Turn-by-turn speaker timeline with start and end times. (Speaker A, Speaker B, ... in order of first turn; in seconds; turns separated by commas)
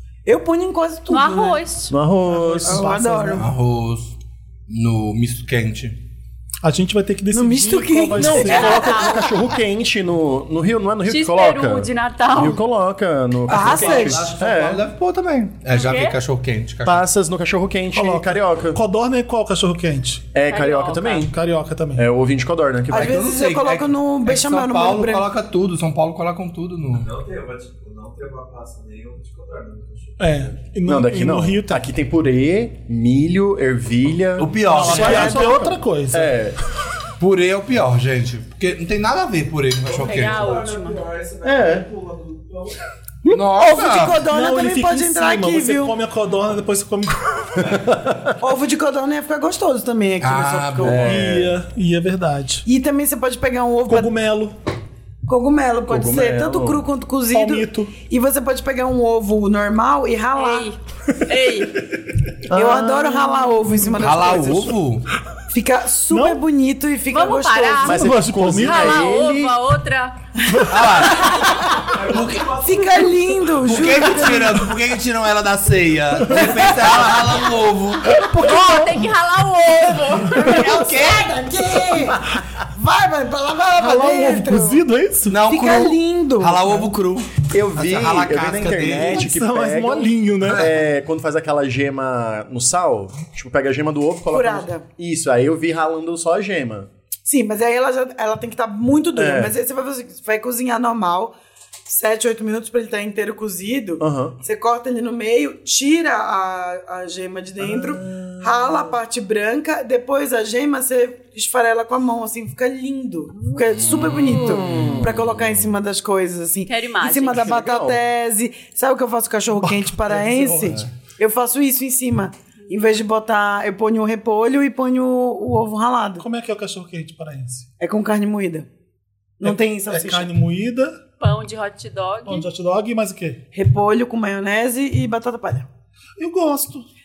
Speaker A: 0.2-1.6, Speaker B: 1.1-2.0, Speaker C: 1.9-2.9, Speaker D: 2.3-3.5, Speaker A: 2.6-3.4, Speaker E: 3.4-4.2, Speaker E: 4.7-6.0, Speaker D: 6.6-9.1, Speaker A: 7.3-9.2, Speaker C: 8.1-14.8, Speaker B: 8.4-9.2, Speaker B: 11.1-12.6, Speaker A: 13.5-14.3, Speaker E: 13.5-17.0, Speaker D: 13.9-14.3, Speaker B: 15.7-16.1, Speaker C: 16.8-18.8, Speaker D: 17.9-20.3, Speaker C: 20.3-21.3, Speaker B: 20.5-21.3, Speaker D: 21.2-22.0, Speaker C: 21.9-23.3, Speaker A: 22.9-25.3, Speaker E: 22.9-27.1, Speaker F: 26.9-30.5, Speaker D: 30.2-31.8, Speaker C: 30.8-35.6, Speaker E: 34.4-35.5, Speaker D: 34.6-36.3, Speaker A: 34.7-35.8, Speaker C: 36.1-36.6, Speaker E: 37.2-40.6, Speaker F: 39.8-42.8, Speaker B: 40.0-41.0, Speaker C: 41.4-41.9, Speaker E: 43.3-44.2, Speaker A: 43.3-45.9, Speaker D: 43.9-47.9, Speaker C: 47.7-48.1, Speaker A: 48.4-51.1, Speaker E: 50.2-51.2, Speaker C: 50.8-51.6, Speaker D: 51.0-52.6, Speaker A: 52.6-54.1, Speaker D: 53.9-54.5, Speaker A: 55.2-60.7, Speaker C: 55.9-56.9, Speaker D: 57.3-57.9, Speaker B: 60.4-61.8, Speaker C: 62.5-63.7, Speaker A: 62.5-64.8, Speaker E: 64.0-65.1, Speaker A: 65.5-68.0, Speaker D: 66.1-66.4, Speaker B: 67.1-70.4, Speaker C: 67.8-69.6, Speaker D: 67.9-69.1, Speaker D: 70.4-71.3, Speaker E: 70.7-72.6, Speaker A: 71.0-72.0, Speaker F: 71.8-73.6, Speaker A: 72.6-74.7, Speaker E: 73.5-78.2, Speaker D: 76.2-76.9, Speaker D: 78.0-79.1, Speaker B: 78.2-80.8, Speaker A: 80.2-84.8, Speaker E: 80.3-81.4, Speaker D: 83.8-85.4, Speaker E: 85.3-89.3, Speaker A: 85.5-86.8, Speaker C: 87.5-96.9, Speaker D: 89.0-90.7, Speaker E: 90.4-90.7, Speaker A: 94.3-94.8, Speaker A: 97.2-101.3, Speaker C: 99.1-99.5, Speaker A: 101.8-126.2, Speaker C: 104.0-104.3, Speaker C: 107.6-108.8, Speaker C: 114.5-115.1, Speaker B: 116.7-117.6, Speaker C: 117.3-118.0, Speaker D: 119.6-120.8, Speaker D: 126.2-127.7, Speaker A: 127.8-128.7, Speaker A: 129.4-130.3, Speaker D: 129.4-131.0, Speaker B: 131.2-132.5, Speaker D: 132.2-133.4, Speaker A: 133.5-135.7, Speaker D: 136.2-136.8